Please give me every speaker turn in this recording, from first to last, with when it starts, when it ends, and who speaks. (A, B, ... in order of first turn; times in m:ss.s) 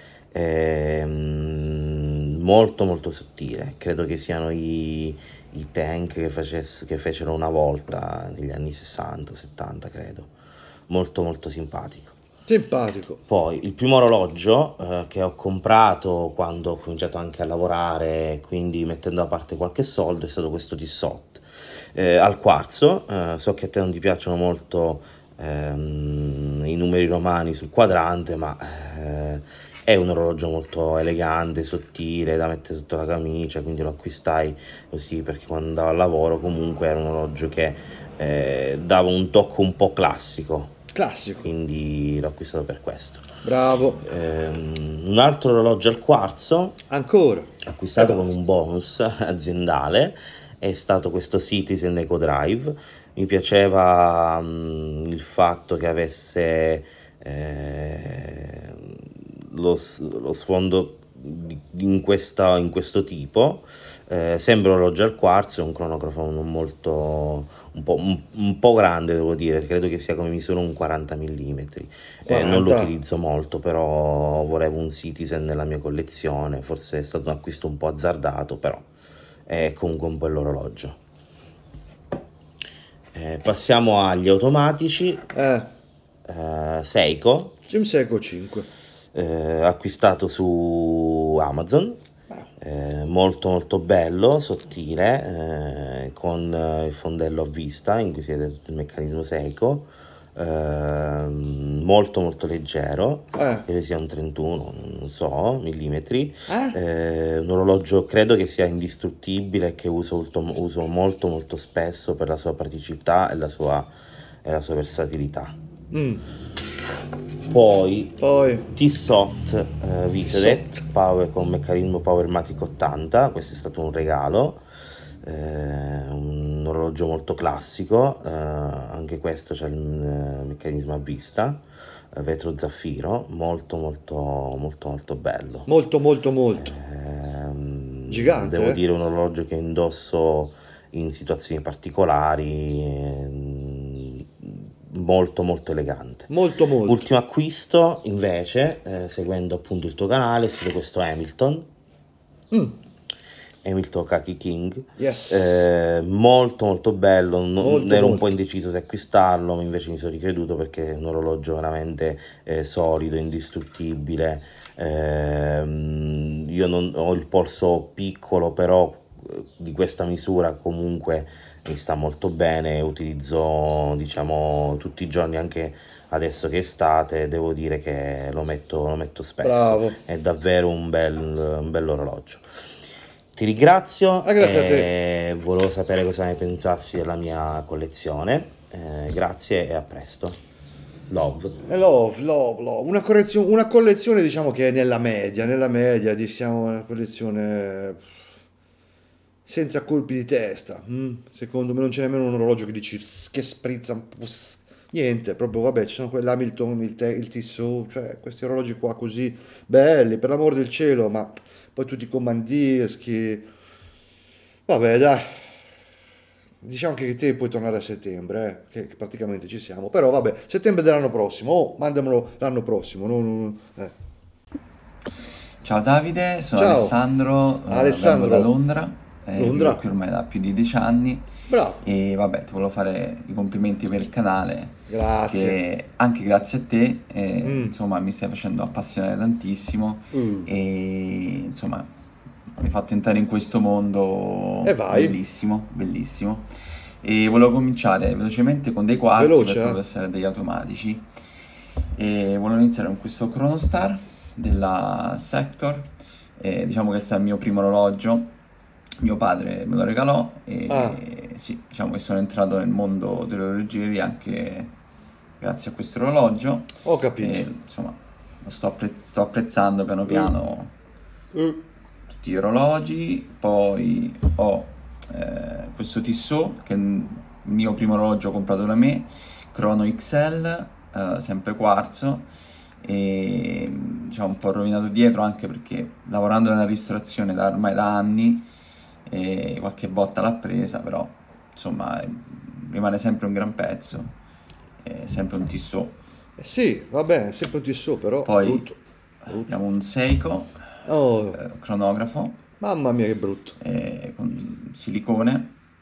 0:00.3-0:10.3 A
0:10.9-0:12.2 A
0:12.5-0:13.2 B
0:13.3-0:40.8 A
0:40.9-0:41.5 B
0:41.4-0:43.3 A
0:43.4-0:44.1 B
0:44.0-0:46.8 A
0:46.9-0:48.4 B
0:47.7-1:18.9 A
1:12.3-1:12.9 B
1:19.5-1:21.0 A
1:23.1-1:25.3 A
1:25.3-1:25.7 B
1:26.3-1:27.6 A
1:27.7-1:28.7 B
1:29.1-1:32.0 A
1:32.6-1:53.9 A
1:43.4-1:43.7 B
1:46.5-1:46.8 B
1:54.4-1:55.6 A
1:55.9-1:56.2 B
1:57.5-2:04.6 A
1:58.2-1:58.7 B
2:00.2-2:00.7 B
2:05.2-2:15.7 A
2:15.7-2:16.8 B
2:16.6-2:26.3 A
2:18.1-2:18.8 B
2:26.3-2:27.1 B
2:26.9-2:31.7 A
2:32.5-2:32.8 B
2:33.6-3:02.4 A
2:35.0-2:35.7 B
2:37.6-2:38.3 B
2:59.4-3:00.0 B
3:03.3-3:10.4 A
3:04.2-3:04.9 B
3:11.1-3:11.6 A
3:11.6-3:18.3 B
3:19.5-3:33.5 B
3:34.7-3:35.6 B
3:36.6-3:44.0 B
3:45.6-3:51.3 C
3:46.6-3:47.0 B
3:47.7-3:48.5 B
3:49.4-3:49.8 B
3:51.5-3:51.8 B
3:51.8-4:01.9 C
3:54.9-3:55.6 B
3:57.4-3:57.7 B
4:00.1-4:00.5 B
4:02.6-4:11.1 C
4:04.6-4:05.2 B
4:09.2-4:09.8 B
4:11.9-4:18.4 C
4:19.0-4:24.7 C
4:20.7-4:21.0 B
4:25.4-4:30.7 C
4:26.8-4:27.5 B
4:31.3-4:31.6 B
4:32.1-4:42.3 C
4:42.8-4:48.5 C
4:49.1-4:54.1 C
4:54.8-4:56.0 C
4:56.4-4:58.8 B
4:58.2-4:58.7 C
4:59.4-5:00.6 C
5:00.8-5:01.4 B
5:01.3-5:02.4 C
5:02.6-5:03.6 B
5:03.6-5:05.5 C